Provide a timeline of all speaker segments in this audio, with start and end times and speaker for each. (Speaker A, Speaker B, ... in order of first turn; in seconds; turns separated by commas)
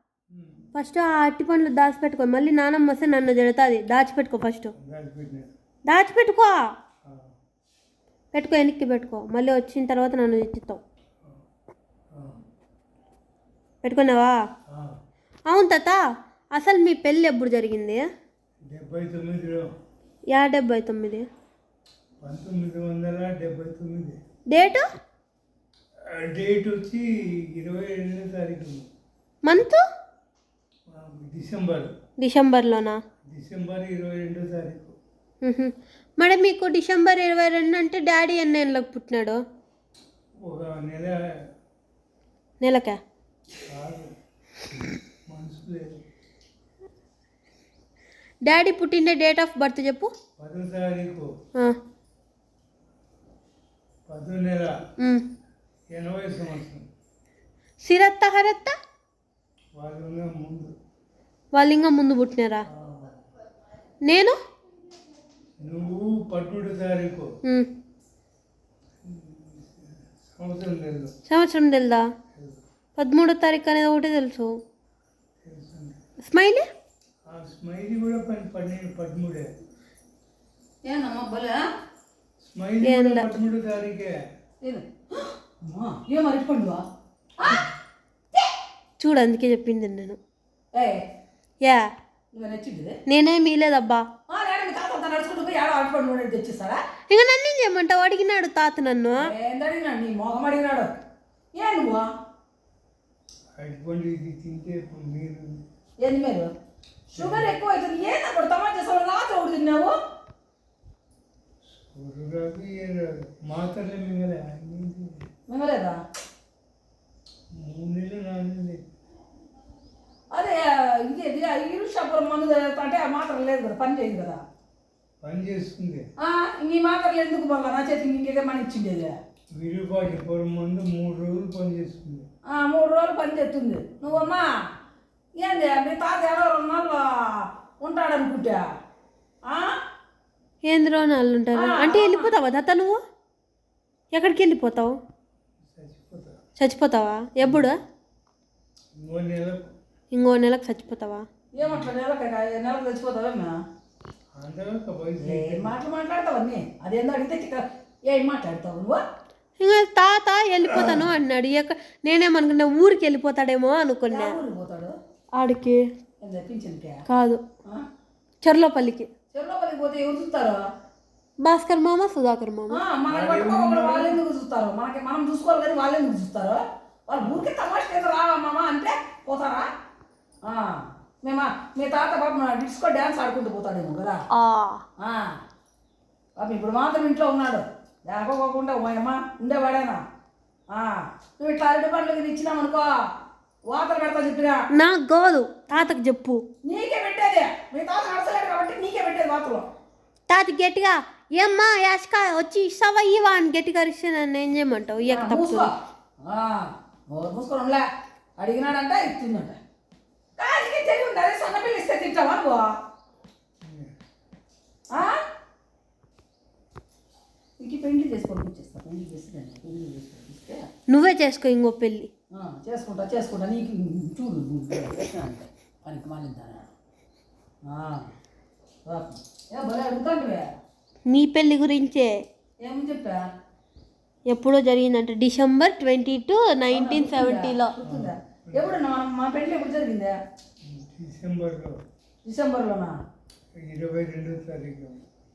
Speaker A: 0.3-0.6, Speaker B: 0.8-4.7, Speaker A: 4.8-5.5, Speaker B: 5.9-6.6, Speaker A: 7.0-7.3, Speaker B: 8.3-10.8, Speaker A: 12.1-12.4, Speaker B: 13.8-14.4, Speaker A: 14.7-14.9, Speaker B: 15.5-16.0, Speaker B: 16.6-18.0, Speaker A: 18.7-19.7, Speaker B: 20.3-21.3, Speaker A: 22.2-24.2, Speaker B: 24.5-24.9, Speaker A: 26.1-28.9, Speaker B: 29.4-29.8, Speaker A: 30.9-31.9, Speaker B: 32.2-33.0, Speaker A: 33.2-35.0, Speaker B: 35.4-39.4, Speaker A: 40.4-41.2, Speaker B: 42.6-43.0, Speaker A: 43.7-44.1, Speaker A: 44.8-46.0, Speaker B: 48.5-50.1, Speaker A: 50.4-51.3, Speaker A: 54.1-54.8, Speaker B: 55.0-55.2, Speaker A: 55.9-56.9, Speaker B: 57.8-58.8, Speaker A: 59.8-60.7, Speaker B: 61.5-62.7, Speaker A: 62.8-63.1, Speaker B: 64.1-64.4, Speaker A: 65.6-67.3, Speaker A: 69.0-71.1, Speaker B: 71.3-72.1, Speaker A: 72.3-72.6, Speaker B: 73.0-74.5, Speaker A: 75.4-76.0, Speaker B: 76.3-76.6, Speaker A: 77.3-79.5, Speaker C: 80.9-81.6, Speaker A: 82.4-84.1, Speaker B: 82.8-83.3, Speaker C: 84.6-86.8, Speaker C: 87.4-87.7, Speaker B: 89.0-90.2, Speaker C: 90.8-91.0, Speaker C: 92.3-93.0, Speaker B: 93.1-94.1, Speaker C: 94.3-96.8, Speaker B: 97.1-99.3, Speaker C: 99.2-100.9, Speaker C: 101.5-102.1, Speaker A: 103.6-105.6, Speaker C: 106.0-106.5, Speaker C: 107.1-110.0, Speaker A: 107.2-107.5, Speaker A: 111.7-115.2, Speaker C: 115.5-116.0, Speaker A: 117.6-118.8, Speaker C: 120.3-124.4, Speaker A: 125.2-126.0, Speaker C: 126.2-129.2, Speaker A: 129.6-132.3, Speaker C: 132.5-134.5, Speaker C: 135.4-138.7, Speaker C: 139.5-139.7, Speaker B: 140.7-143.0, Speaker C: 141.6-142.3, Speaker B: 144.1-145.0, Speaker A: 145.6-146.4, Speaker B: 146.6-147.8, Speaker A: 147.4-147.7, Speaker A: 149.0-149.7, Speaker B: 150.1-151.2, Speaker C: 151.6-153.6, Speaker A: 151.6-151.9, Speaker A: 154.4-155.7, Speaker C: 155.2-159.0, Speaker B: 159.6-164.4, Speaker A: 160.7-161.1, Speaker C: 164.1-164.9, Speaker B: 165.3-165.9, Speaker C: 166.2-167.0, Speaker B: 167.1-167.4, Speaker B: 168.4-169.1, Speaker C: 169.3-170.6, Speaker B: 171.4-172.8, Speaker C: 172.7-179.7, Speaker A: 173.1-174.2, Speaker A: 177.2-177.5, Speaker C: 180.4-184.2, Speaker B: 184.3-184.8, Speaker C: 185.0-185.3, Speaker C: 186.4-190.0, Speaker C: 190.7-192.9, Speaker C: 193.7-194.6, Speaker B: 194.7-196.4, Speaker C: 196.7-199.7, Speaker B: 200.3-205.7, Speaker C: 205.1-205.7, Speaker C: 206.2-207.9, Speaker C: 208.4-209.6, Speaker C: 210.4-212.7, Speaker A: 213.6-213.9, Speaker C: 217.6-220.7, Speaker B: 220.9-222.1, Speaker C: 222.3-226.7, Speaker C: 227.7-228.1, Speaker C: 228.9-230.5, Speaker B: 231.1-232.2, Speaker C: 232.6-233.2, Speaker B: 234.3-237.7, Speaker C: 236.7-240.2, Speaker A: 237.8-238.8, Speaker A: 240.7-241.8, Speaker C: 242.2-242.9, Speaker A: 243.6-245.1